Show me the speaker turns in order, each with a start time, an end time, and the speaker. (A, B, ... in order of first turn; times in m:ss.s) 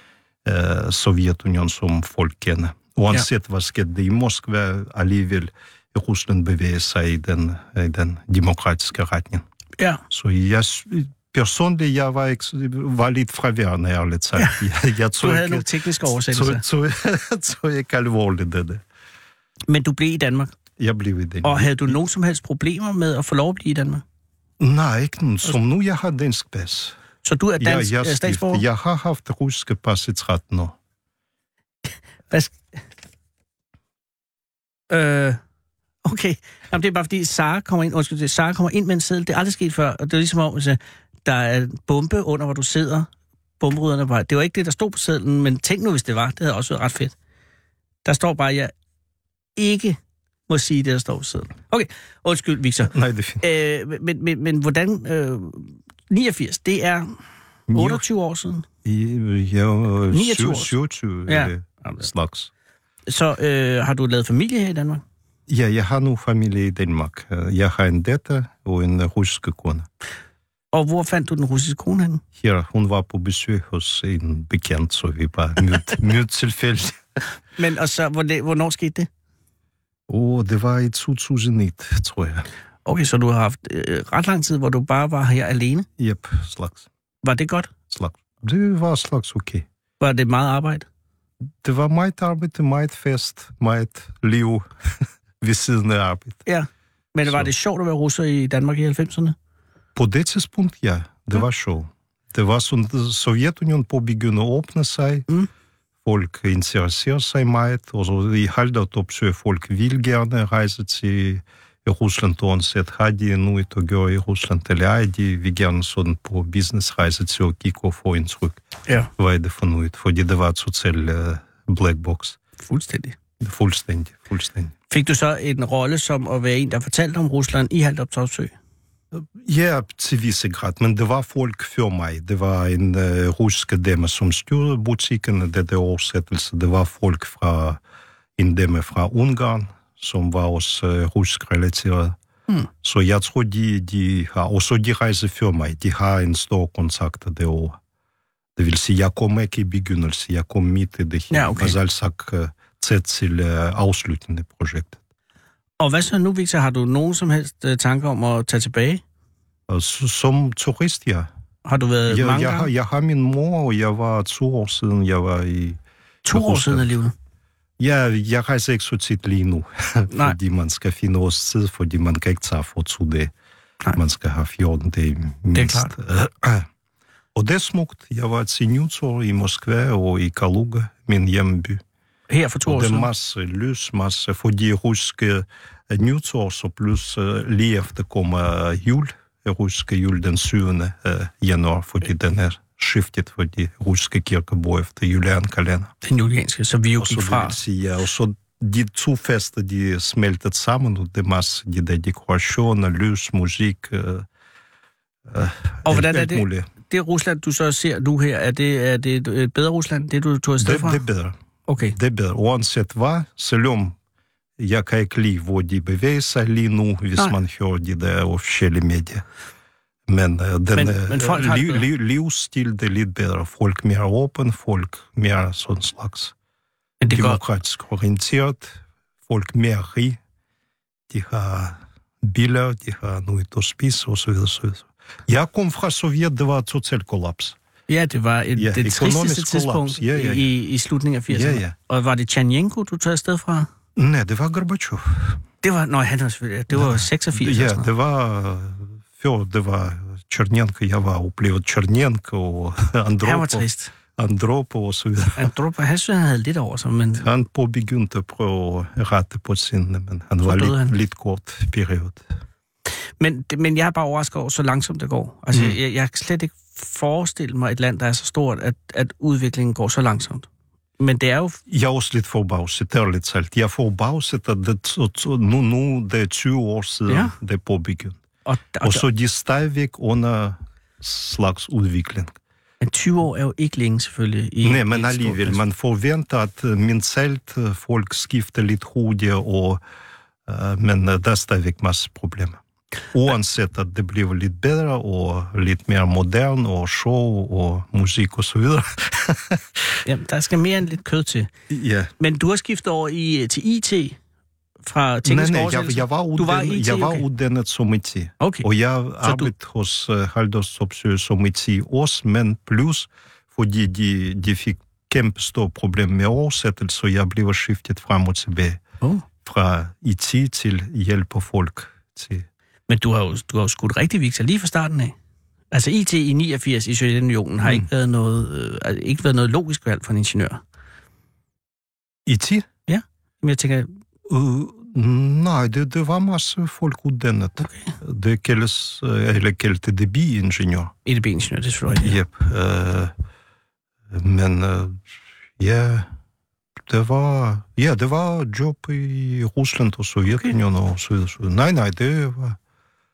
0:00.4-0:09.4 A
0:10.1-0:15.7 A
0:15.2-0:16.6 B
0:16.2-0:18.8 A
0:19.7-0:20.5 B
0:20.8-0:22.0 A
0:21.4-0:24.0 B
0:24.6-0:27.0 A
0:27.2-0:28.6 B
0:27.6-0:30.8 A
0:32.3-0:32.6 B
0:34.9-0:35.4 B
0:36.0-0:43.1 B
0:43.6-0:47.1 B
0:48.0-0:48.7 B
0:49.6-0:57.1 B
0:52.8-0:53.4 A
0:57.7-0:58.0 A
0:57.7-0:58.7 B
0:58.8-1:02.5 A
1:00.1-1:00.7 B
1:01.3-1:01.9 B
1:03.1-1:05.0 B
1:05.5-1:09.9 A
1:10.7-1:12.2 B
1:12.4-1:17.0 A
1:17.6-1:19.1 B
1:20.1-1:22.5 A
1:22.8-1:25.9 B
1:26.0-1:26.9 A
1:27.2-1:27.7 B
1:27.9-1:29.6 A
1:30.0-1:30.9 B
1:31.6-1:34.7 A
1:35.4-1:36.4 A
1:36.4-1:39.4 B
1:37.2-1:37.5 A
1:40.0-1:45.3 A
1:46.0-1:58.6 A
1:59.2-2:02.4 A
2:02.6-2:03.2 B
2:03.4-2:04.7 A
2:04.9-2:08.5 B
2:09.1-2:17.8 A
2:18.4-2:22.2 A
2:22.8-2:27.8 A
2:28.6-2:35.0 A
2:31.3-2:31.8 B
2:35.8-2:39.0 B
2:39.7-2:41.3 A
2:41.6-2:42.7 B
2:42.1-2:47.0 A
2:46.2-2:47.1 B
2:47.8-2:53.3 A
2:50.1-2:50.4 B
2:53.9-2:56.7 A
2:55.5-2:55.9 B
2:57.3-3:01.8 A
3:02.3-3:03.1 B
3:02.6-3:15.9 A
3:16.0-3:17.6 B
3:17.0-3:24.3 A
3:25.3-3:26.7 A
3:25.9-3:31.0 B
3:30.6-3:34.0 A
3:31.7-3:31.9 B
3:34.6-3:39.2 A
3:40.1-3:46.3 A
3:40.7-3:41.8 B
3:47.0-3:47.4 B
3:47.1-3:50.2 A
3:51.1-3:57.6 A
3:57.9-4:03.7 B
3:58.6-4:00.5 A
4:01.3-4:01.8 A
4:04.0-4:05.4 A
4:05.6-4:07.9 B
4:06.7-4:15.5 A
4:13.2-4:13.9 B
4:15.4-4:17.3 B
4:17.2-4:22.2 A
4:20.4-4:20.9 B
4:23.2-4:30.5 B
4:25.5-4:25.8 A
4:31.0-4:31.6 B
4:31.7-4:38.2 A
4:37.1-4:37.3 B
4:38.4-4:39.0 B
4:38.8-4:42.3 A
4:42.8-4:45.6 B
4:44.6-4:49.8 A
4:50.5-4:52.6 A
4:53.1-4:59.6 A
5:00.0-5:01.5 B
5:01.7-5:02.1 A
5:02.2-5:04.2 B
5:04.8-5:07.2 B
5:05.2-5:18.8 A
5:08.4-5:08.7 B
5:09.2-5:09.5 B
5:19.4-5:22.4 A
5:22.9-5:25.1 B
5:25.7-5:30.6 B
5:32.2-5:32.7 A
5:32.9-5:33.9 B
5:34.3-5:40.9 A
5:37.6-5:37.9 B
5:41.0-5:42.2 B
5:41.9-5:43.1 A
5:44.1-5:45.0 A
5:45.6-5:46.1 A
5:46.9-5:52.6 A
5:50.3-5:50.5 B